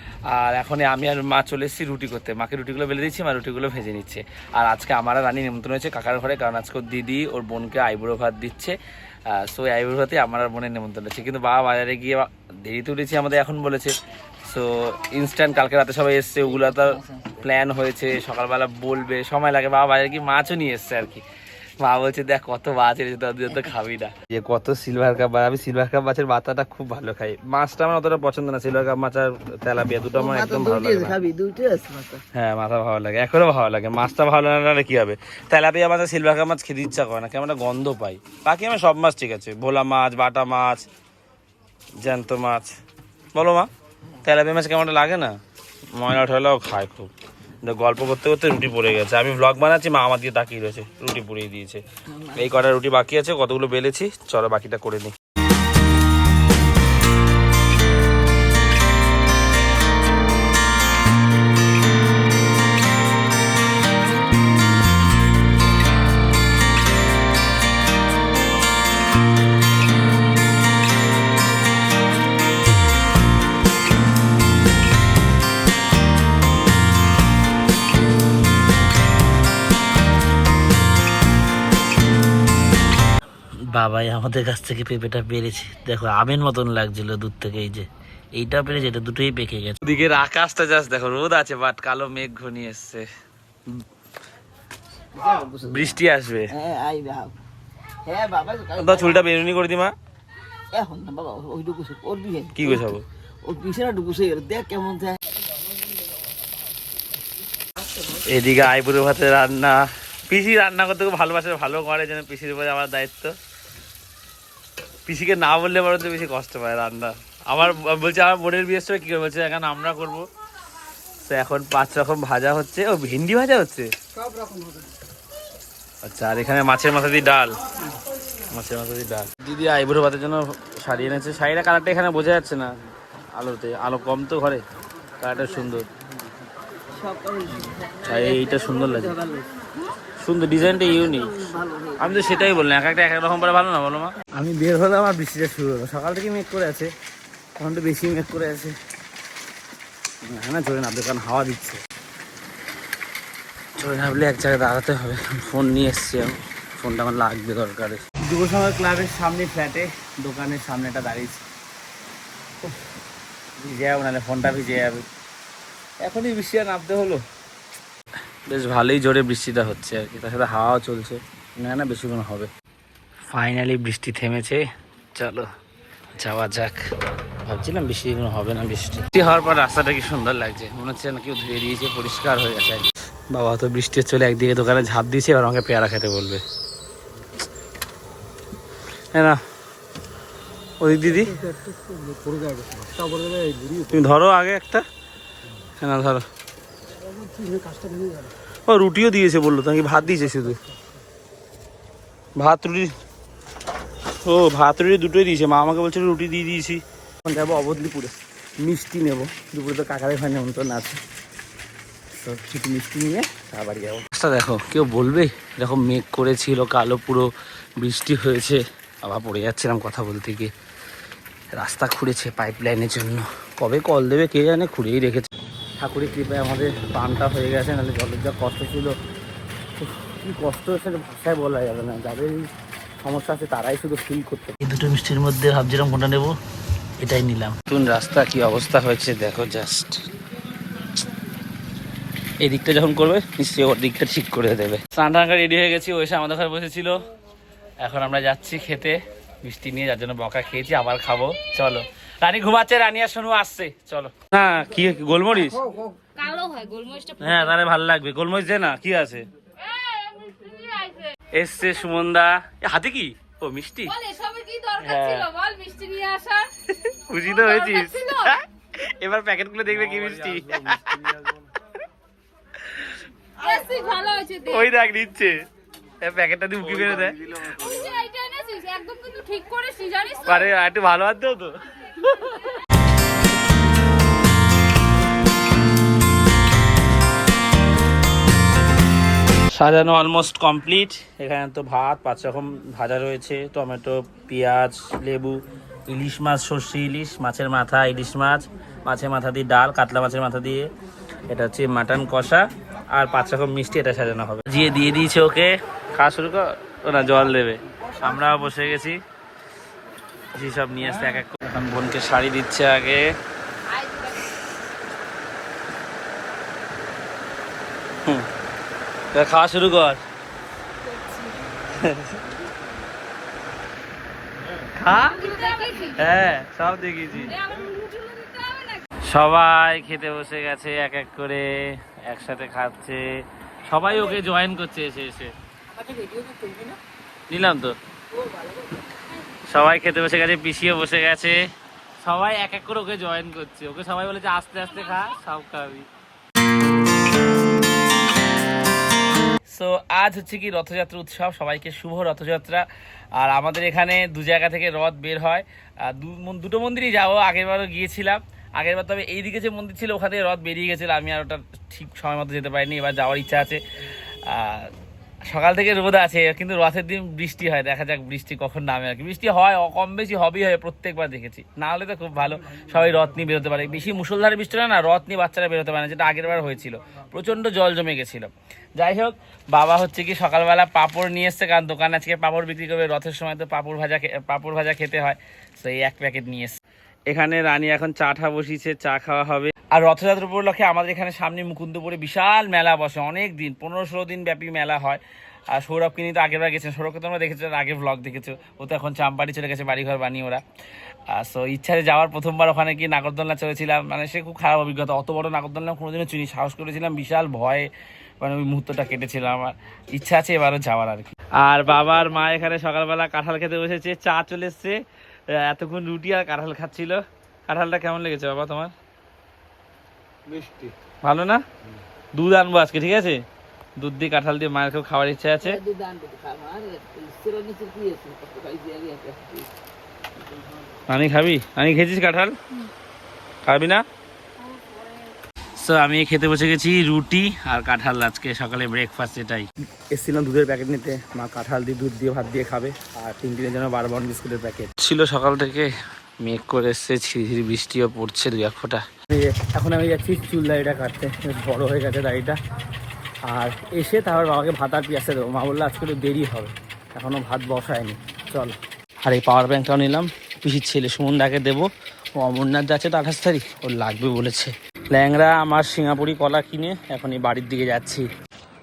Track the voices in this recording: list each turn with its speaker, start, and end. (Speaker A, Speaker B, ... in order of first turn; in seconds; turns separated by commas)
Speaker A: 0.3-8.8, Speaker A: 9.3-13.9, Speaker A: 14.4-21.2, Speaker B: 16.6-17.1, Speaker A: 21.8-31.2, Speaker B: 30.1-32.2, Speaker A: 32.3-40.9, Speaker A: 42.0-42.7, Speaker A: 43.4-43.7, Speaker A: 44.2-45.4, Speaker A: 45.9-51.8, Speaker B: 52.1-52.6, Speaker A: 52.4-55.1, Speaker A: 83.7-93.1, Speaker B: 95.2-96.0, Speaker A: 95.7-96.5, Speaker B: 96.5-97.3, Speaker B: 98.0-99.2, Speaker A: 98.8-99.9, Speaker B: 100.7-105.2, Speaker A: 102.5-103.0, Speaker A: 108.2-113.3, Speaker A: 115.1-120.3, Speaker A: 121.2-123.9, Speaker A: 126.0-127.5, Speaker A: 128.5-132.7, Speaker A: 133.3-134.6, Speaker A: 135.2-135.8, Speaker B: 136.9-139.6, Speaker A: 138.0-139.2, Speaker A: 140.2-141.4, Speaker B: 140.7-142.5, Speaker A: 142.0-146.9, Speaker A: 147.6-148.8, Speaker A: 150.3-151.8, Speaker A: 153.8-161.4, Speaker A: 163.6-165.1, Speaker A: 166.0-167.2, Speaker A: 168.5-172.5, Speaker A: 173.3-175.5, Speaker A: 176.1-176.8, Speaker A: 177.4-186.4, Speaker A: 189.1-189.4, Speaker A: 190.8-191.3, Speaker C: 191.5-193.9, Speaker A: 193.9-194.8, Speaker A: 195.8-196.2, Speaker B: 197.2-198.2, Speaker A: 198.7-200.6, Speaker A: 202.4-202.9, Speaker A: 204.2-211.0, Speaker A: 212.1-220.5, Speaker A: 221.5-228.9, Speaker A: 229.8-232.5, Speaker A: 233.0-236.3, Speaker A: 237.0-240.0, Speaker A: 242.4-247.0, Speaker A: 247.8-255.6, Speaker D: 256.2-257.6, Speaker A: 257.2-259.3, Speaker D: 259.6-261.2, Speaker A: 261.3-263.9, Speaker D: 263.9-266.5, Speaker A: 264.8-265.3, Speaker A: 266.8-271.1, Speaker D: 267.1-268.4, Speaker C: 269.8-271.5, Speaker A: 272.6-273.0, Speaker D: 273.4-274.7, Speaker A: 274.5-275.4, Speaker A: 276.0-277.6, Speaker C: 276.8-277.0, Speaker D: 277.4-280.5, Speaker A: 280.2-282.5, Speaker A: 289.5-300.7, Speaker A: 301.3-309.0, Speaker A: 310.3-313.1, Speaker A: 319.1-320.0, Speaker A: 321.7-322.2, Speaker A: 324.8-327.4, Speaker D: 325.1-326.1, Speaker D: 327.3-328.8, Speaker A: 329.0-333.1, Speaker A: 333.7-335.3, Speaker A: 335.9-336.6, Speaker A: 337.3-337.8, Speaker A: 339.5-341.4, Speaker A: 342.0-345.9, Speaker A: 349.5-352.6, Speaker A: 353.2-363.6, Speaker A: 364.3-364.7, Speaker A: 365.3-400.4, Speaker A: 401.1-418.7, Speaker C: 420.3-420.7, Speaker A: 421.0-421.4, Speaker A: 422.1-423.2, Speaker A: 423.8-425.6, Speaker B: 425.4-429.5, Speaker A: 430.9-432.4, Speaker A: 433.4-433.8, Speaker A: 435.6-452.4, Speaker A: 453.2-468.1